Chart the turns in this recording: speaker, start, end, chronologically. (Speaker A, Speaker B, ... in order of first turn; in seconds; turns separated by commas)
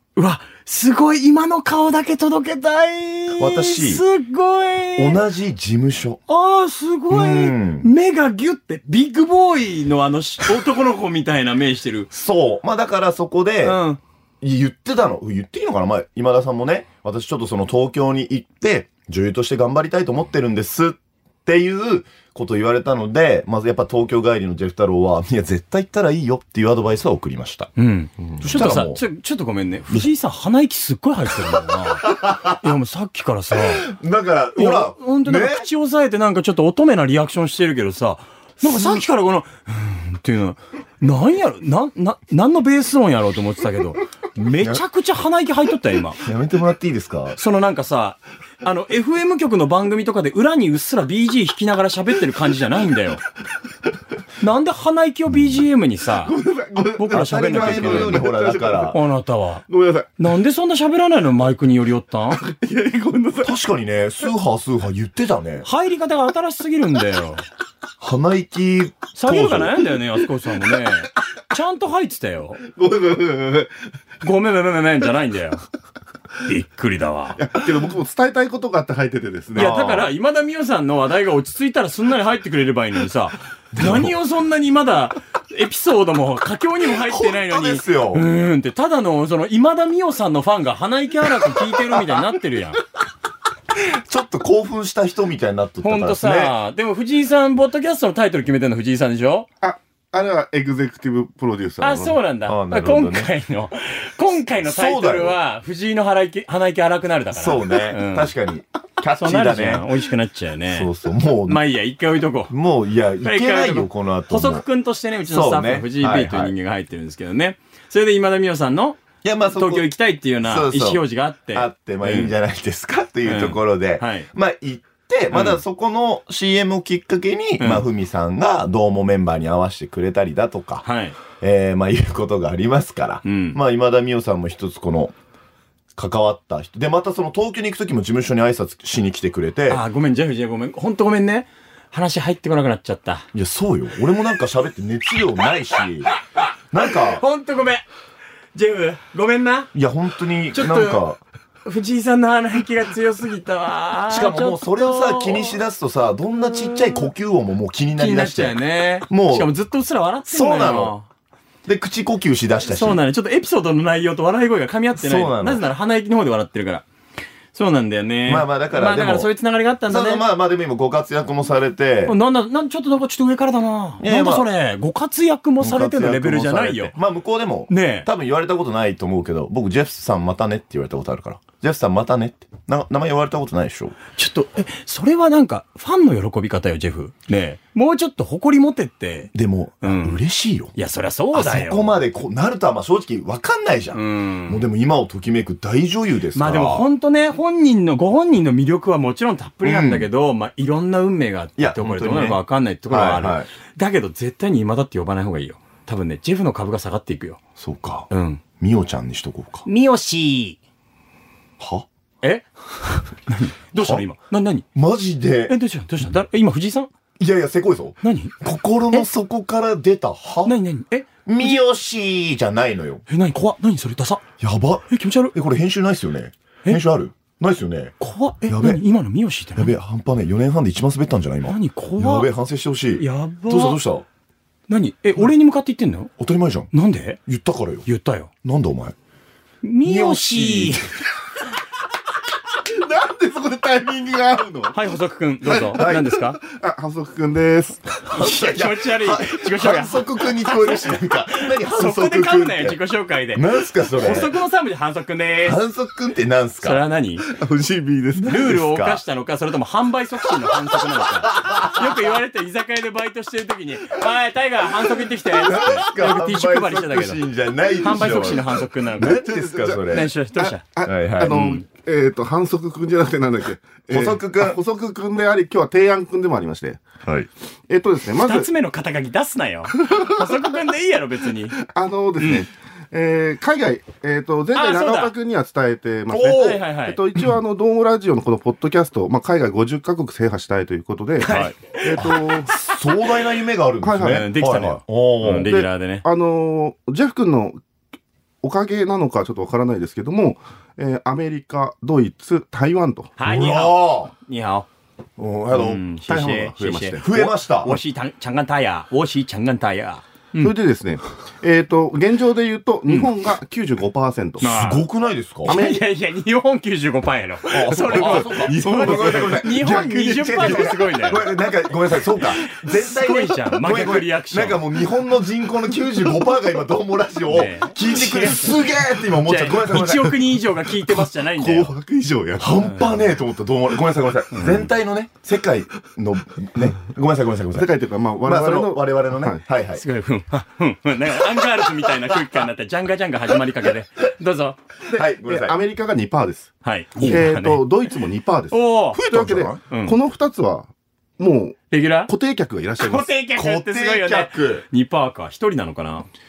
Speaker A: 0.2-5.2, Speaker B: 3.4-4.0, Speaker B: 5.0-6.2, Speaker A: 6.3-12.1, Speaker B: 7.1-7.9, Speaker B: 12.1-13.8, Speaker A: 13.6-14.0, Speaker B: 14.4-27.7, Speaker A: 27.8-33.9, Speaker B: 28.3-29.0, Speaker B: 31.5-32.6, Speaker B: 33.6-35.7, Speaker A: 34.6-46.2, Speaker B: 38.6-39.0, Speaker B: 44.6-44.8, Speaker B: 46.2-47.4, Speaker A: 47.4-53.2, Speaker A: 54.4-56.4, Speaker C: 56.1-59.0, Speaker A: 57.0-58.3, Speaker B: 57.1-59.0, Speaker A: 58.9-59.6, Speaker C: 59.7-60.1, Speaker A: 60.2-62.4, Speaker C: 62.3-63.5, Speaker B: 63.4-65.7, Speaker A: 65.6-67.4, Speaker B: 68.0-69.9, Speaker A: 69.2-72.6, Speaker C: 72.6-73.7, Speaker A: 74.2-75.6, Speaker A: 76.4-77.4, Speaker C: 77.4-79.8, Speaker A: 79.5-92.8, Speaker B: 79.6-80.1, Speaker B: 83.8-84.1, Speaker B: 86.8-88.3, Speaker B: 93.8-96.6, Speaker A: 95.8-99.5, Speaker C: 99.6-102.2, Speaker A: 101.8-108.3, Speaker B: 102.5-103.3, Speaker B: 104.6-105.4, Speaker B: 107.3-109.9, Speaker A: 109.2-110.9, Speaker B: 110.7-111.6, Speaker A: 111.5-112.5, Speaker B: 112.5-114.7, Speaker A: 113.2-122.3, Speaker B: 115.2-116.5, Speaker B: 119.2-119.9, Speaker B: 120.4-135.1, Speaker A: 123.2-124.3, Speaker A: 125.3-125.6, Speaker A: 127.6-127.8, Speaker A: 130.8-131.2, Speaker A: 133.2-133.6, Speaker B: 135.9-139.8, Speaker A: 139.7-143.3, Speaker B: 143.3-146.1, Speaker B: 146.7-147.2, Speaker A: 146.8-147.8, Speaker A: 148.6-149.7, Speaker B: 149.7-151.2, Speaker A: 150.5-151.0, Speaker A: 151.7-155.6, Speaker B: 154.1-159.5, Speaker A: 156.4-157.1, Speaker A: 158.0-161.1, Speaker B: 160.3-160.9, Speaker B: 161.7-163.0, Speaker A: 162.7-166.8, Speaker B: 165.0-165.6, Speaker A: 167.5-170.2, Speaker B: 168.3-169.3, Speaker B: 169.9-172.2, Speaker A: 172.1-176.9, Speaker B: 174.0-174.5, Speaker B: 175.6-184.0, Speaker A: 177.7-178.1, Speaker A: 184.2-190.2, Speaker B: 189.3-190.8, Speaker A: 190.8-192.0, Speaker B: 191.3-196.8, Speaker A: 193.9-194.6, Speaker A: 196.3-207.4, Speaker B: 199.6-200.1, Speaker B: 201.6-203.5, Speaker B: 207.6-208.1, Speaker A: 208.1-208.4, Speaker B: 208.6-209.7, Speaker A: 209.7-210.6, Speaker B: 211.6-211.9, Speaker A: 212.2-214.7, Speaker B: 213.8-214.1, Speaker B: 214.8-215.5, Speaker A: 215.5-216.9, Speaker B: 217.2-220.6, Speaker A: 218.0-218.3, Speaker A: 220.4-221.6, Speaker B: 221.3-223.0, Speaker A: 223.1-224.2, Speaker B: 224.4-227.9, Speaker A: 224.9-225.3, Speaker A: 228.0-229.7, Speaker B: 228.5-228.8, Speaker B: 229.6-234.1, Speaker A: 231.5-232.3, Speaker A: 233.0-233.8, Speaker A: 234.7-236.1, Speaker B: 236.2-236.7, Speaker A: 236.7-237.2, Speaker B: 237.3-237.9, Speaker A: 237.8-238.3, Speaker B: 238.4-238.9, Speaker A: 239.6-240.9, Speaker B: 239.8-240.9, Speaker C: 242.6-244.9, Speaker A: 244.7-246.4, Speaker C: 245.5-248.0, Speaker B: 245.5-246.1, Speaker B: 248.1-252.8, Speaker A: 248.1-255.6, Speaker B: 253.3-254.3, Speaker B: 255.4-256.8, Speaker A: 256.6-257.3, Speaker C: 257.2-258.5, Speaker B: 258.1-259.0, Speaker A: 258.3-267.2, Speaker B: 260.5-262.0, Speaker B: 265.2-270.1, Speaker A: 267.8-269.2, Speaker C: 269.0-276.9, Speaker A: 269.9-270.6, Speaker B: 270.8-271.5, Speaker A: 271.3-271.6, Speaker B: 273.9-274.6, Speaker B: 277.0-277.3, Speaker C: 277.7-278.5, Speaker A: 278.1-281.6, Speaker C: 281.6-292.5, Speaker A: 282.2-282.4, Speaker A: 284.6-285.1, Speaker B: 286.1-286.6, Speaker A: 286.3-287.0, Speaker B: 291.2-295.5, Speaker A: 291.2-292.8, Speaker C: 293.8-294.3, Speaker A: 294.1-296.1, Speaker C: 295.4-297.6, Speaker C: 298.4-303.1, Speaker A: 303.2-304.7, Speaker B: 303.2-304.1, Speaker B: 305.2-306.1, Speaker A: 305.5-310.5, Speaker C: 306.1-307.1, Speaker B: 307.0-307.8, Speaker C: 310.4-314.5, Speaker A: 314.4-314.9, Speaker B: 314.4-315.6, Speaker A: 315.5-321.2, Speaker C: 315.5-315.8, Speaker B: 317.5-330.2, Speaker C: 317.8-321.2, Speaker A: 322.4-324.6, Speaker A: 327.3-328.5, Speaker A: 329.2-331.7, Speaker C: 330.7-332.6, Speaker B: 332.4-337.7, Speaker A: 334.3-334.7, Speaker C: 337.5-339.4, Speaker B: 338.2-339.8, Speaker A: 339.8-344.6, Speaker C: 344.9-353.1, Speaker B: 344.9-345.6, Speaker A: 346.6-347.7, Speaker B: 347.0-347.2, Speaker A: 348.5-349.1, Speaker B: 348.9-349.6, Speaker A: 349.7-350.0, Speaker A: 351.7-352.1, Speaker A: 352.8-356.1, Speaker B: 353.4-354.6